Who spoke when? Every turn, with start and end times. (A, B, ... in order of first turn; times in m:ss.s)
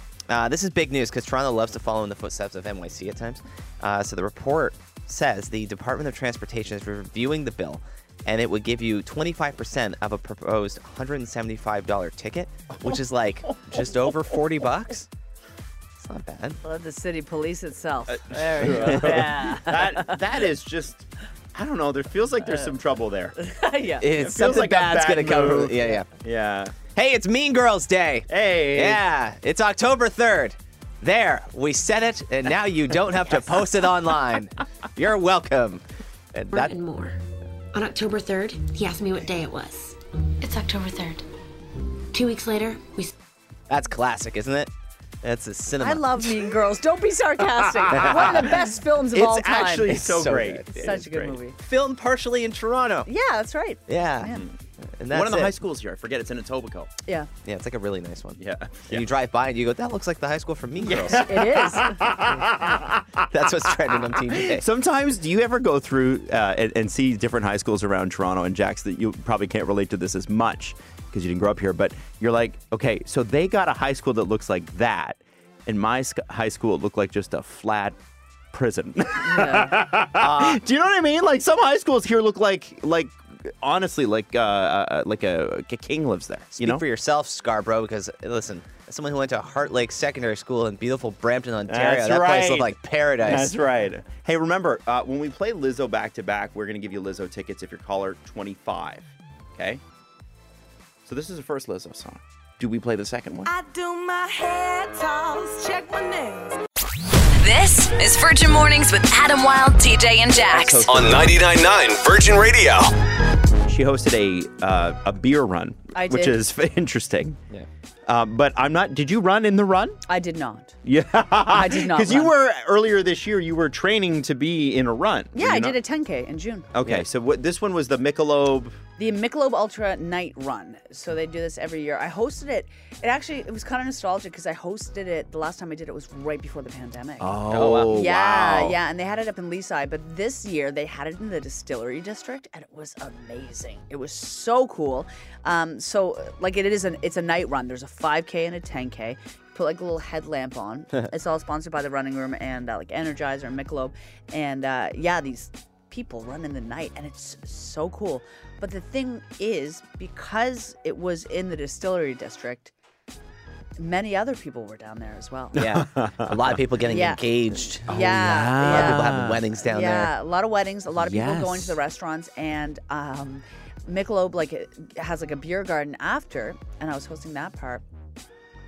0:00.3-0:15.1 A
0:16.0-0:16.6 A
0:16.6-0:20.2 B
0:18.1-0:23.4 C
0:23.4-0:24.0 B
0:24.0-0:26.1 A
0:24.1-0:26.7 C
0:26.8-0:35.8 A
0:28.3-0:29.0 C
0:36.3-0:36.7 A
0:36.5-0:37.2 D
0:37.7-0:41.2 D
0:42.1-0:43.1 D
0:43.7-0:44.7 A
0:45.2-0:46.3 A
0:45.8-0:50.0 B
0:47.8-0:48.5 C
0:47.9-0:48.5 A
0:49.1-0:51.4 C
0:49.9-0:50.9 A
0:50.7-0:51.6 B
0:51.6-0:53.1 A
0:53.0-0:54.4 B
0:53.9-0:54.4 A
0:55.0-0:55.5 A
0:55.1-0:56.9 C
0:57.0-0:57.3 B
0:57.4-1:01.3 A
0:58.4-0:59.1 C
1:00.8-1:18.0 C
1:01.1-1:02.2 B
1:03.3-1:04.6 A
1:18.5-1:26.8 C
1:19.2-1:19.8 B
1:20.2-1:20.6 A
1:26.6-1:33.5 A
1:31.7-1:39.8 C
1:41.0-1:43.5 C
1:43.4-1:46.6 E
1:47.4-1:50.9 F
1:50.5-1:51.4 C
1:50.9-1:52.9 G
1:53.6-1:57.4 C
1:55.9-1:56.4 B
1:58.1-2:00.0 C
2:00.1-2:00.7 B
2:00.8-2:05.8 C
2:01.5-2:02.3 B
2:05.3-2:06.7 B
2:06.7-2:08.8 C
2:09.0-2:17.4 B
2:17.2-2:18.8 C
2:17.5-2:18.0 A
2:17.9-2:42.7 B
2:43.8-2:45.6 B
2:45.5-2:46.6 C
2:45.6-2:50.1 A
2:46.9-2:47.2 B
2:47.8-2:57.8 B
2:47.9-2:49.4 C
2:51.0-2:51.8 C